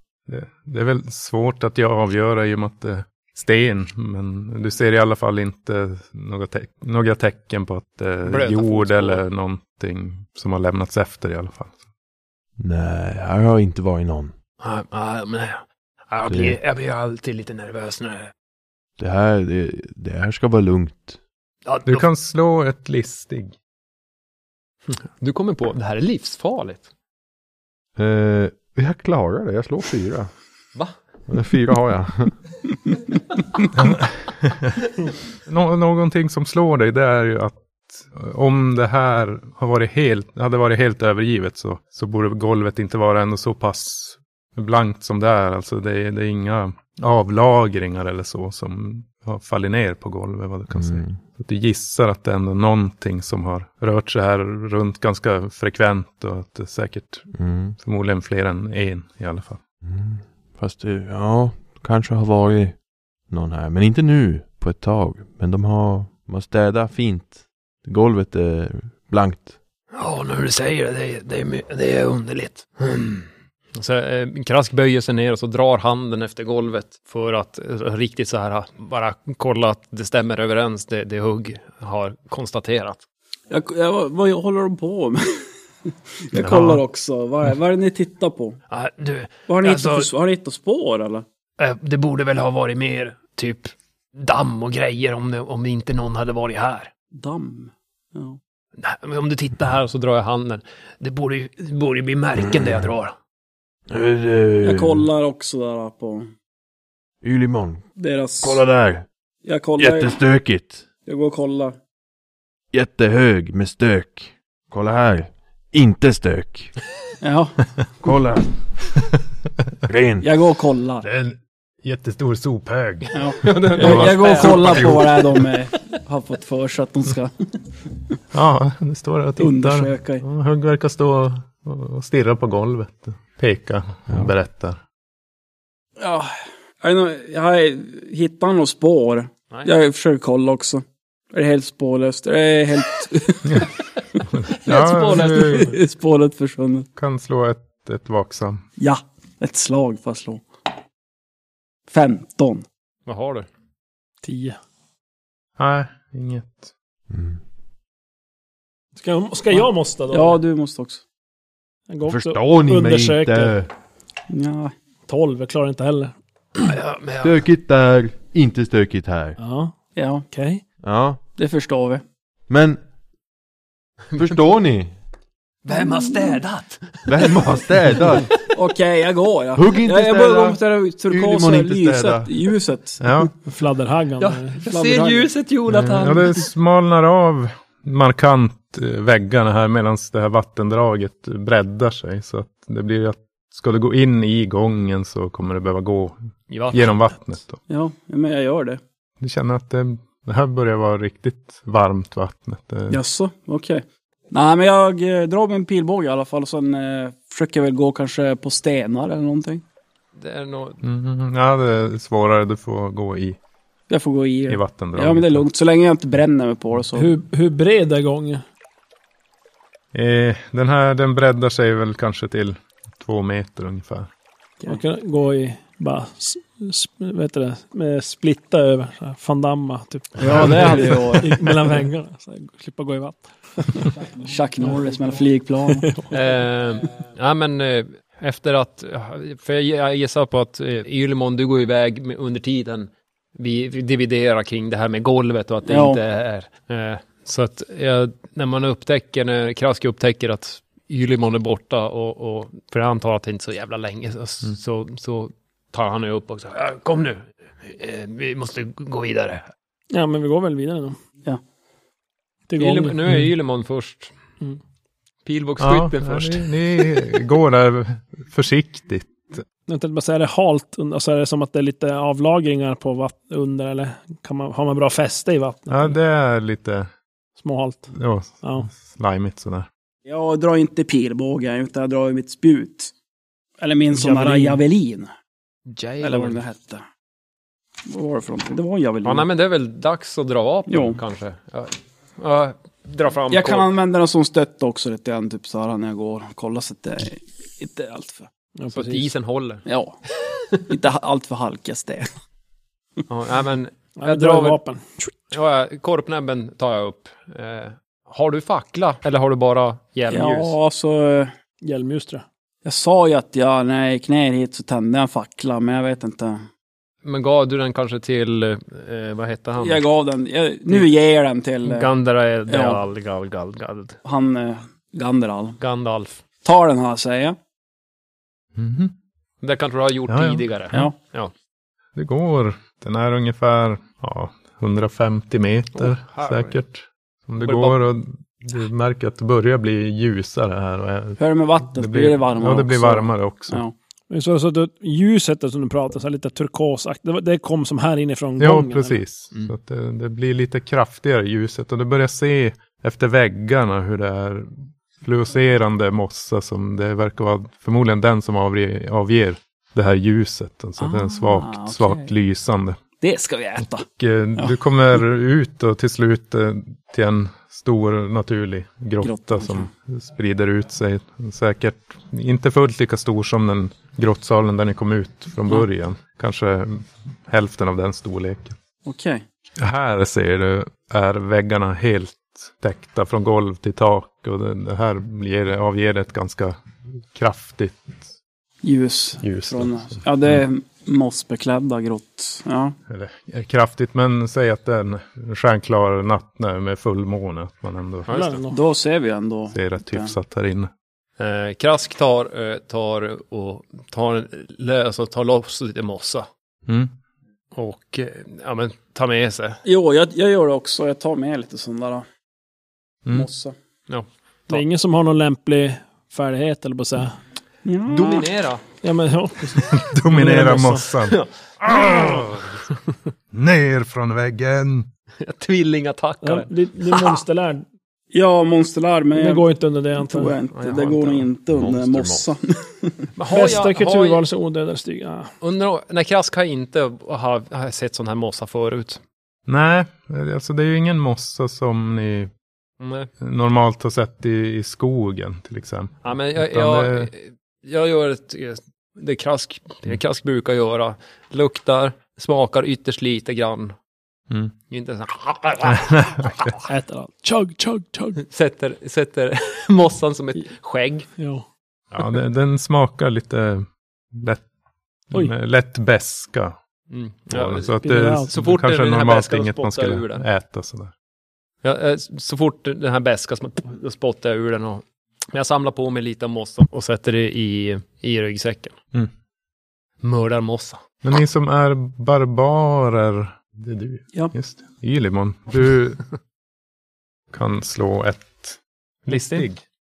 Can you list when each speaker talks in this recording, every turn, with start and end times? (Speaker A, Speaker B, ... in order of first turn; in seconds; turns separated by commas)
Speaker A: 0.3-11.8, Speaker B: 8.2-9.2, Speaker C: 12.6-14.3, Speaker B: 14.6-18.3, Speaker C: 16.3-16.6, Speaker C: 19.0-21.2, Speaker B: 21.6-22.1, Speaker A: 21.9-23.5, Speaker B: 24.9-26.9, Speaker C: 28.0-30.3, Speaker C: 31.3-32.4, Speaker A: 33.7-34.8, Speaker A: 35.5-59.6, Speaker C: 50.7-51.2, Speaker C: 57.3-57.8, Speaker C: 59.8-69.5, Speaker B: 69.9-83.0, Speaker D: 83.5-85.4, Speaker D: 86.2-88.6, Speaker B: 86.4-86.8, Speaker B: 88.7-90.1, Speaker D: 89.5-91.2, Speaker B: 91.6-96.9, Speaker D: 97.1-98.4, Speaker B: 98.8-103.1, Speaker C: 103.9-105.0, Speaker D: 104.6-106.3, Speaker C: 107.2-107.8, Speaker D: 108.0-108.6, Speaker C: 108.4-109.1, Speaker D: 109.4-110.2, Speaker C: 109.8-110.8, Speaker D: 111.0-111.8, Speaker C: 112.7-116.8, Speaker D: 117.2-117.7, Speaker C: 118.0-118.6, Speaker C: 119.9-120.3, Speaker D: 120.2-121.0, Speaker A: 121.0-125.0, Speaker D: 123.1-127.3, Speaker B: 123.4-125.1, Speaker A: 128.3-134.8, Speaker D: 129.4-130.2, Speaker D: 136.0-144.2, Speaker A: 144.3-145.7, Speaker B: 144.6-145.7, Speaker D: 144.8-146.9, Speaker A: 146.9-148.6, Speaker D: 148.8-150.4, Speaker D: 151.9-152.7, Speaker B: 153.1-153.5, Speaker E: 154.2-154.6, Speaker A: 155.6-156.7, Speaker C: 157.1-157.4, Speaker E: 158.9-160.4, Speaker D: 159.5-161.0, Speaker E: 161.9-163.6, Speaker C: 162.1-163.7, Speaker D: 164.3-164.7, Speaker E: 165.1-166.1, Speaker B: 166.5-167.4, Speaker C: 167.2-169.4, Speaker E: 169.4-169.7, Speaker D: 169.9-170.2, Speaker E: 170.3-170.6, Speaker C: 170.8-171.2, Speaker D: 171.3-172.0, Speaker C: 172.5-172.8, Speaker B: 174.1-174.4, Speaker C: 174.1-175.0, Speaker B: 175.6-177.5, Speaker D: 175.7-176.4, Speaker C: 177.1-178.4, Speaker D: 178.5-183.3, Speaker C: 179.5-182.3, Speaker A: 183.0-183.3, Speaker E: 183.4-184.6, Speaker B: 184.2-186.4, Speaker D: 184.7-185.3, Speaker A: 185.7-196.2, Speaker B: 196.5-197.0, Speaker A: 196.7-197.6, Speaker D: 197.7-198.8, Speaker A: 199.2-203.0, Speaker D: 202.9-209.6, Speaker B: 210.2-210.8, Speaker A: 210.8-213.4, Speaker D: 213.9-217.1, Speaker A: 214.5-215.4, Speaker E: 216.9-218.4, Speaker A: 219.9-224.1, Speaker E: 224.6-233.9, Speaker D: 230.2-231.8, Speaker D: 234.2-235.9, Speaker E: 235.7-236.3, Speaker B: 236.1-259.5, Speaker D: 245.7-246.0, Speaker E: 259.9-260.9, Speaker E: 262.5-263.2, Speaker B: 262.6-264.1, Speaker B: 265.2-266.8, Speaker A: 265.6-269.4, Speaker E: 269.7-275.9, Speaker A: 275.7-276.9, Speaker E: 277.4-278.7, Speaker A: 277.9-279.7, Speaker D: 280.1-282.9, Speaker D: 283.6-285.1, Speaker E: 283.9-284.6, Speaker B: 285.7-286.4, Speaker D: 286.0-286.8, Speaker D: 287.9-289.2, Speaker B: 289.0-293.7, Speaker D: 290.7-291.0, Speaker D: 293.3-298.3, Speaker E: 298.6-299.1, Speaker B: 298.7-299.6, Speaker D: 299.6-300.0, Speaker B: 300.2-300.6, Speaker D: 300.7-302.1, Speaker B: 303.1-304.6, Speaker E: 304.0-304.8, Speaker B: 305.3-310.5, Speaker D: 310.1-311.3, Speaker E: 311.6-312.2, Speaker D: 312.6-316.4, Speaker B: 317.0-319.8, Speaker D: 319.6-321.9, Speaker B: 321.6-324.0, Speaker D: 322.5-322.8, Speaker D: 324.0-325.6, Speaker B: 325.6-326.2, Speaker D: 326.4-327.4, Speaker A: 328.6-328.9, Speaker B: 329.4-331.3, Speaker A: 330.1-330.4, Speaker A: 331.9-343.6, Speaker B: 335.7-336.6, Speaker B: 337.4-337.8, Speaker D: 341.2-343.7, Speaker E: 344.1-349.0, Speaker A: 348.4-362.8, Speaker D: 360.8-362.1, Speaker D: 363.0-363.9, Speaker A: 363.6-378.6, Speaker D: 369.0-369.7, Speaker D: 378.8-379.2, Speaker A: 379.6-388.1, Speaker D: 388.6-392.8, Speaker A: 389.2-390.4, Speaker A: 392.9-398.1, Speaker B: 398.1-398.4, Speaker E: 398.1-398.6, Speaker D: 398.5-400.1, Speaker A: 399.5-400.7, Speaker B: 401.2-406.3, Speaker A: 406.7-406.9, Speaker B: 407.6-409.6, Speaker D: 409.6-412.0, Speaker D: 413.1-413.5, Speaker B: 413.9-414.6, Speaker E: 414.5-417.1, Speaker D: 417.6-418.3, Speaker B: 417.9-418.6, Speaker E: 418.8-420.9, Speaker A: 419.6-422.6, Speaker B: 421.1-422.7, Speaker A: 423.3-424.9, Speaker B: 425.2-427.2, Speaker E: 426.2-427.6, Speaker D: 428.1-433.1, Speaker E: 429.1-430.3, Speaker B: 430.5-431.3, Speaker C: 431.5-432.3, Speaker B: 433.1-434.2, Speaker E: 433.3-435.3, Speaker B: 435.4-439.0, Speaker A: 439.5-442.3, Speaker B: 442.8-443.1, Speaker A: 443.2-447.1, Speaker B: 446.0-453.7, Speaker B: 454.7-456.6, Speaker A: 455.6-456.5, Speaker E: 456.7-458.2, Speaker B: 458.2-461.1, Speaker E: 461.2-461.4, Speaker A: 461.9-464.4, Speaker A: 465.1-466.6, Speaker B: 466.9-467.8, Speaker A: 467.3-470.9, Speaker E: 467.8-468.3, Speaker B: 468.3-470.2, Speaker B: 471.6-478.7, Speaker B: 480.0-480.8, Speaker A: 481.0-486.0, Speaker A: 487.3-489.6, Speaker B: 489.1-489.4